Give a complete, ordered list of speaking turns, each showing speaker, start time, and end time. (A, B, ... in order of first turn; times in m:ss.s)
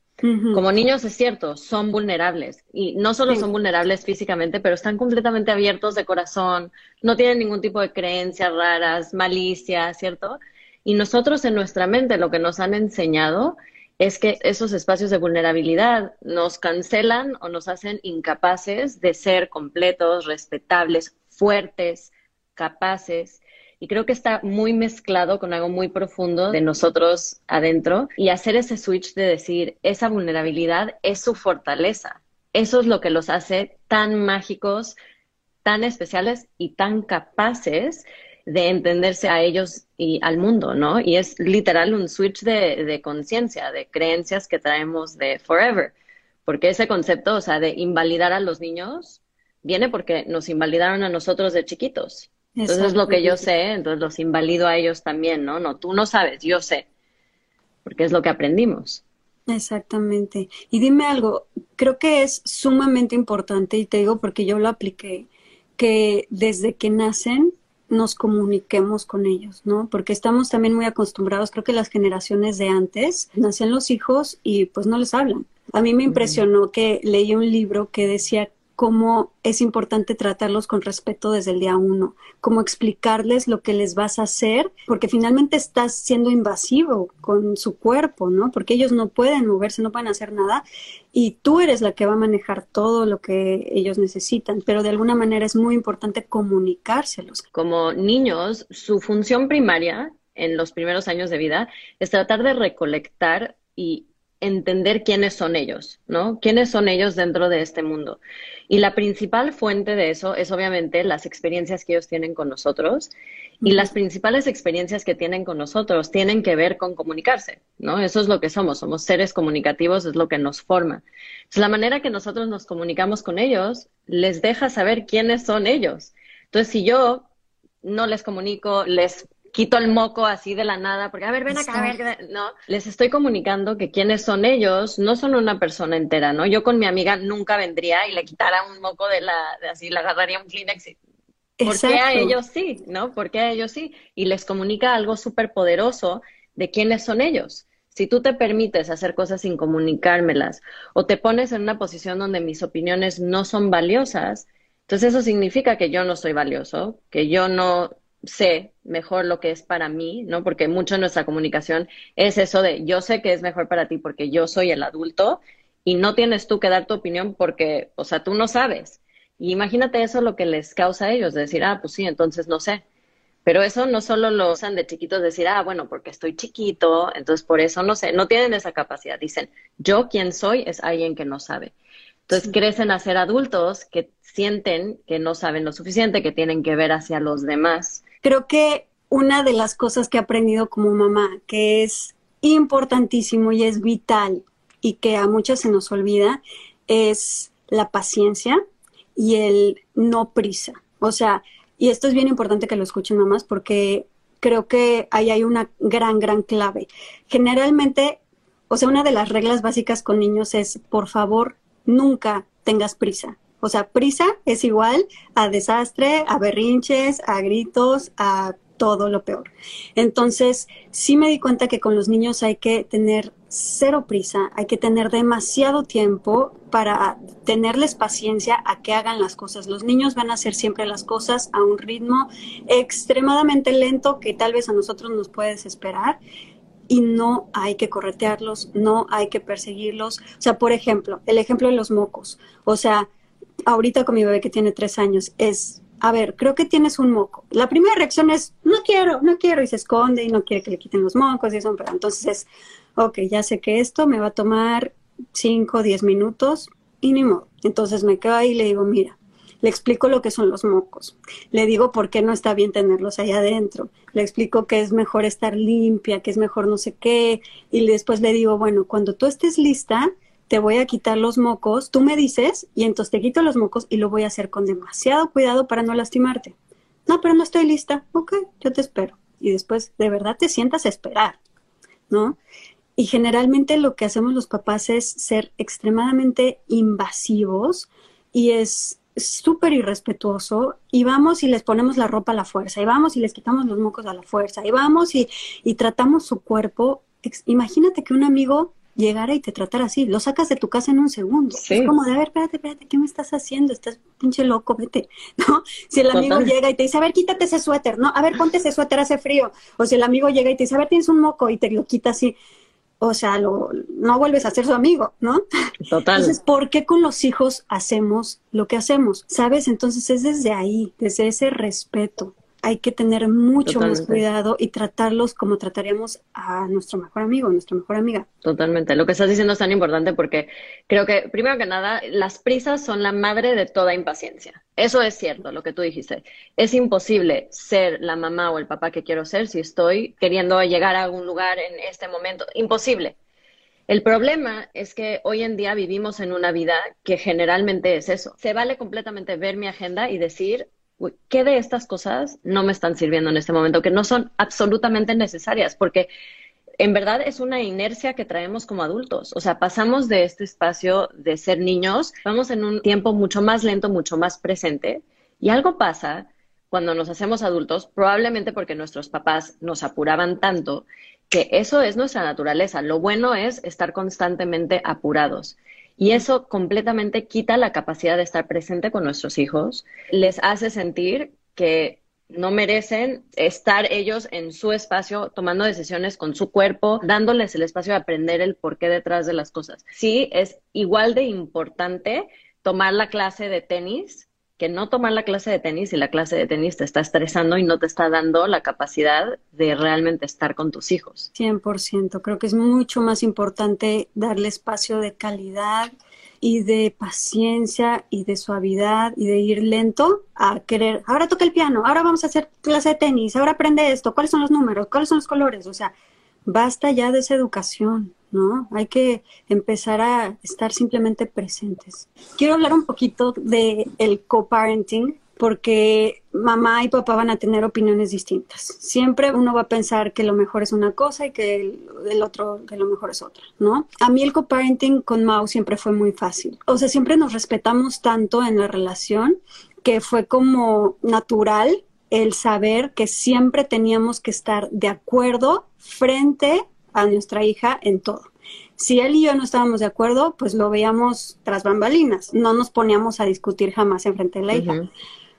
0:00.2-0:00.6 A
0:00.5-0:35.0 B
0:35.6-0:45.9 B
0:46.4-0:56.8 B
0:52.6-0:53.5 A
0:57.8-0:59.0 B
0:59.5-1:37.4 A
1:37.5-1:53.1 B
1:53.6-2:07.3 B
1:53.6-1:53.9 A
2:07.8-2:21.0 B
2:11.5-2:12.0 A
2:21.6-2:22.3 A
2:21.7-2:52.8 B
2:53.4-3:01.7 B
3:02.3-3:08.0 B
3:08.2-3:18.6 A
3:19.2-3:28.2 A
3:28.7-3:56.2 A
3:56.9-4:03.1 A
4:03.7-4:36.5 A
4:37.1-4:41.4 A
4:42.1-4:42.4 A
4:43.0-5:12.3 A
5:01.6-5:01.9 B
5:06.1-5:06.5 B
5:13.0-5:15.4 A
5:15.8-5:16.4 B
5:16.1-5:28.2 A
5:23.6-5:24.2 B
5:28.4-5:43.2 B
5:43.9-5:56.1 B
5:56.8-6:41.3 B
6:41.4-6:55.9 A
6:56.4-7:34.7 A
7:34.5-7:34.9 B